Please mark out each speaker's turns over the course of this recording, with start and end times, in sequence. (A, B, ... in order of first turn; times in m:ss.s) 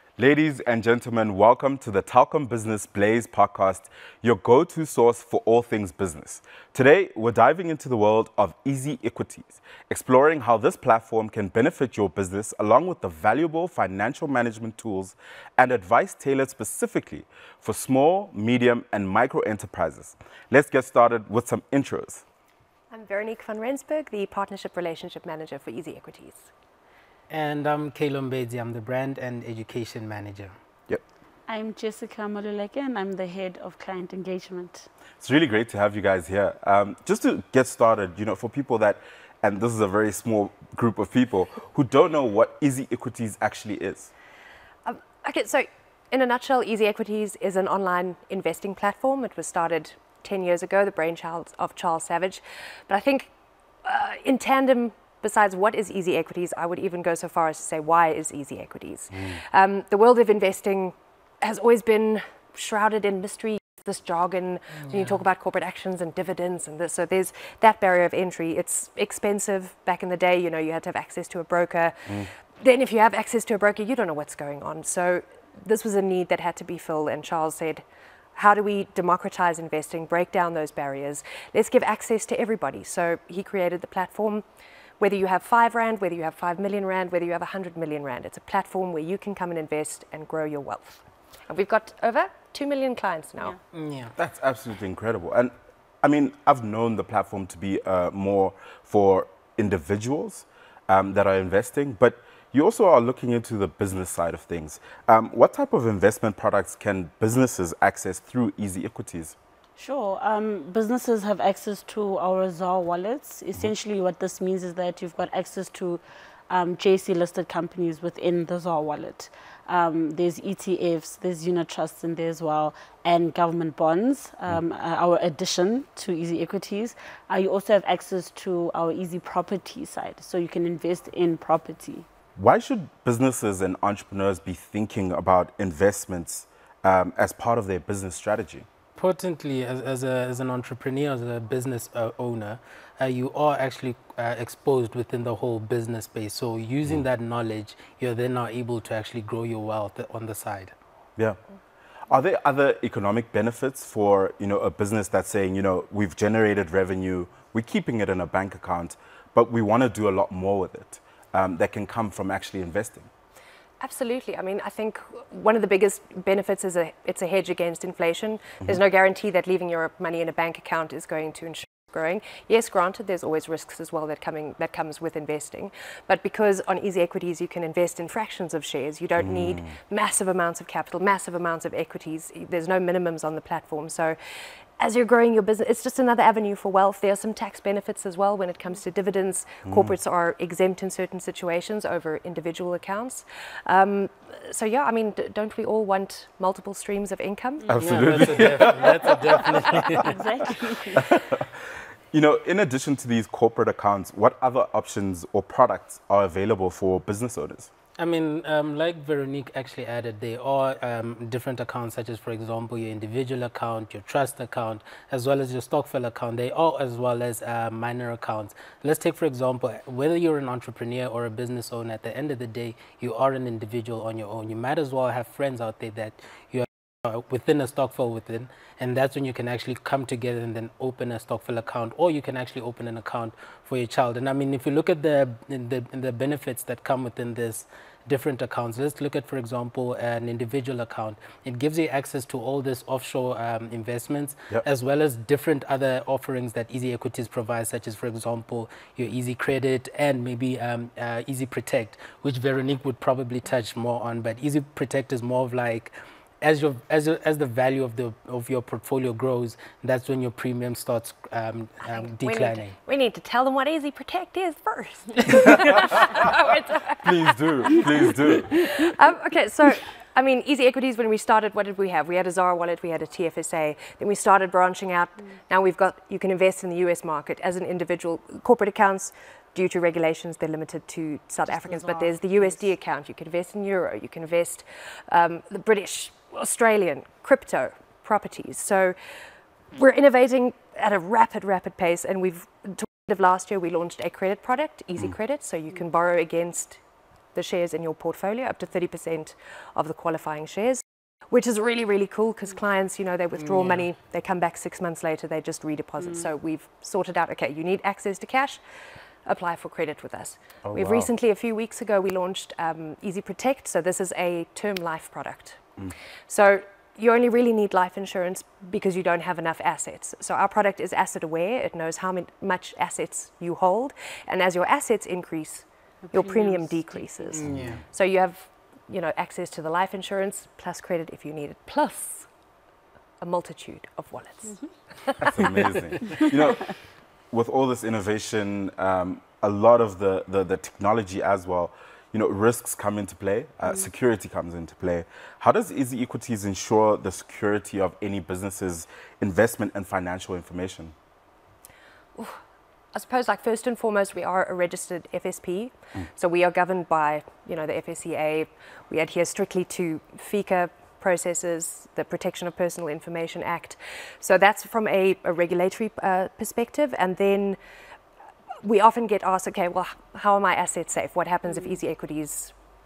0:00.2-0:22.2 A
0:22.9-0:26.5 B
0:27.3-0:30.5 C
0:31.5-0:34.9 D
0:35.2-0:44.1 A
0:44.8-0:53.3 B
0:53.8-1:17.8 B
1:04.8-1:05.2 C
1:18.4-1:24.4 B
1:25.0-1:33.6 B
1:33.7-1:34.1 C
1:34.2-1:49.4 A
1:49.8-2:12.1 D
2:12.4-2:18.7 A
2:19.0-2:30.8 C
2:32.1-2:43.1 A
2:43.8-3:17.8 B
2:59.2-2:59.7 A
3:09.6-3:10.0 A
3:17.7-3:19.4 A
3:17.8-3:20.2 C
3:19.9-3:21.0 D
3:22.1-3:27.7 A
3:28.0-4:22.8 C
4:21.8-4:49.0 B
4:27.0-4:28.6 A
4:41.5-4:42.7 D
4:49.7-4:56.8 B
4:57.4-5:08.6 B
5:03.4-5:03.9 C
5:06.0-5:06.3 D
5:09.2-5:15.7 B
5:10.6-5:11.1 A
5:16.3-5:32.3 B
5:26.0-5:27.6 D
5:27.3-5:27.8 C
5:27.5-5:27.8 A
5:33.2-5:35.4 B
5:34.4-5:34.7 D
5:35.2-5:36.8 A
5:37.3-5:51.0 A
5:52.9-6:07.6 B
6:08.6-6:12.6 B